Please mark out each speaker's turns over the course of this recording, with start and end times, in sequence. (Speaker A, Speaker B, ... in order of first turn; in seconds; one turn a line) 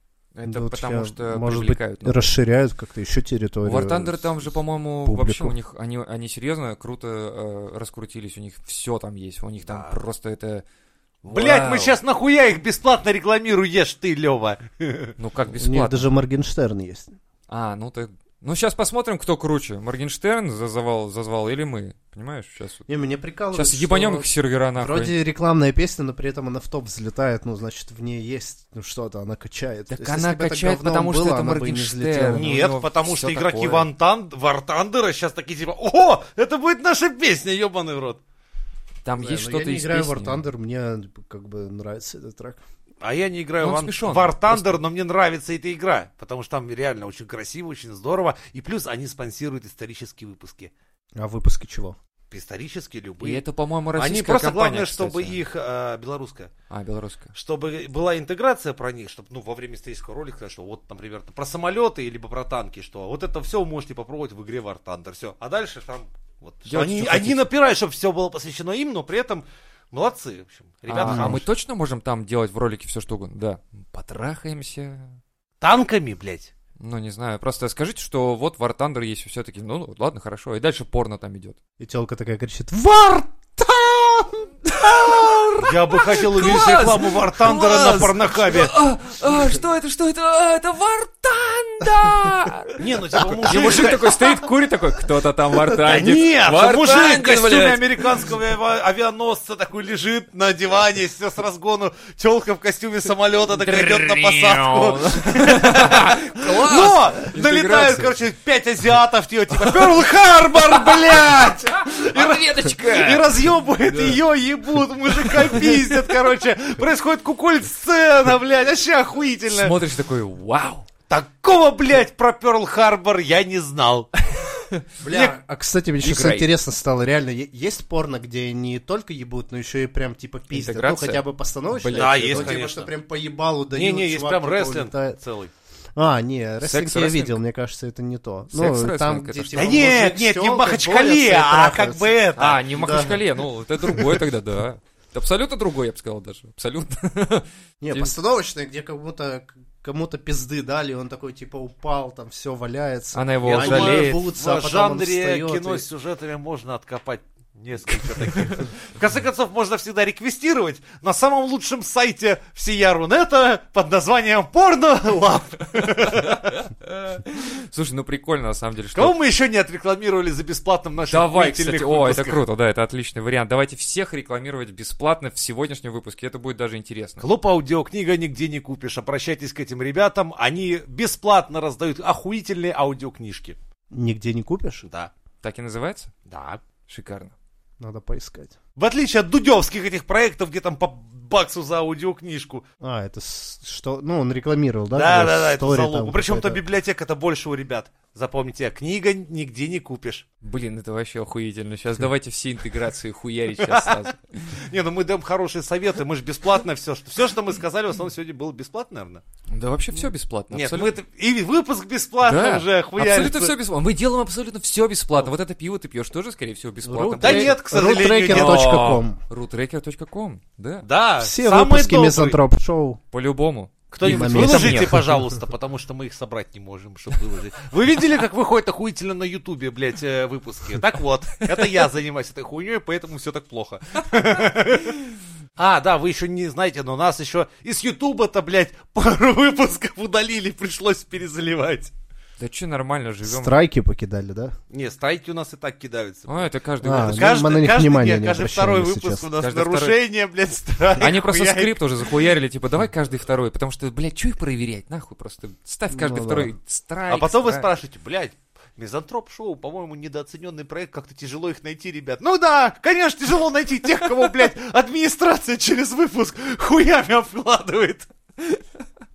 Speaker A: 0.3-2.3
Speaker B: 0.4-4.5
Speaker A: 3.6-10.6
Speaker B: 5.0-5.5
Speaker C: 9.6-10.0
Speaker A: 11.2-11.9
Speaker C: 11.3-15.1
Speaker A: 15.2-16.1
Speaker B: 15.5-17.1
Speaker A: 17.5-22.9
Speaker B: 22.9-32.5
Speaker A: 23.5-25.1
Speaker A: 29.9-33.9
Speaker C: 32.3-38.2
Speaker A: 39.0-40.4
Speaker B: 39.2-42.6
Speaker C: 43.0-50.7
Speaker A: 43.6-44.8
Speaker B: 51.2-52.0
Speaker C: 52.3-53.4
Speaker A: 53.2-55.4
Speaker C: 54.0-56.5
Speaker A: 56.7-57.3
Speaker C: 57.3-71.4
Speaker A: 66.7-67.4
Speaker A: 70.9-75.2
Speaker B: 71.0-71.4
Speaker C: 75.6-76.5
Speaker A: 76.8-81.6
Speaker B: 81.8-85.5
Speaker A: 84.8-98.1
Speaker C: 85.6-88.8
Speaker C: 92.8-94.2
Speaker C: 95.9-119.8
Speaker A: 103.5-108.1
Speaker A: 110.7-113.3
Speaker A: 113.9-114.2
Speaker A: 115.2-115.8
Speaker A: 119.5-120.9
Speaker C: 121.1-124.1
Speaker A: 124.5-124.8
Speaker B: 125.0-135.2
Speaker C: 125.0-125.3
Speaker A: 126.0-126.5
Speaker A: 130.5-132.6
Speaker C: 131.9-132.9
Speaker C: 133.7-135.5
Speaker B: 135.9-142.2
Speaker A: 136.6-137.4
Speaker A: 138.5-139.9
Speaker C: 139.6-143.1
Speaker A: 142.3-148.1
Speaker B: 142.7-143.2
Speaker B: 147.8-155.8
Speaker A: 153.1-154.2
Speaker C: 153.4-166.6
Speaker A: 165.8-169.1
Speaker C: 168.9-172.4
Speaker A: 171.1-177.2
Speaker C: 177.2-183.6
Speaker B: 183.9-184.8
Speaker C: 184.8-185.1
Speaker A: 185.4-186.1
Speaker C: 186.3-186.6
Speaker A: 186.9-187.3
Speaker B: 187.8-188.6
Speaker C: 188.8-192.6
Speaker B: 192.8-196.6
Speaker C: 194.9-200.2
Speaker A: 200.4-204.6
Speaker C: 203.6-209.2
Speaker A: 209.5-210.9
Speaker C: 210.5-213.5
Speaker A: 212.2-217.6
Speaker B: 216.8-219.2
Speaker C: 217.2-218.8
Speaker A: 218.3-220.8
Speaker C: 220.8-222.4
Speaker B: 221.2-223.0
Speaker A: 223.1-225.1
Speaker C: 223.9-235.0
Speaker B: 224.0-225.3
Speaker C: 235.6-241.9
Speaker A: 242.4-243.6
Speaker B: 243.2-244.6
Speaker C: 244.7-252.1
Speaker A: 246.3-247.3
Speaker B: 246.8-249.2
Speaker A: 249.4-250.0
Speaker A: 251.0-257.7
Speaker B: 255.9-256.5
Speaker C: 257.1-268.6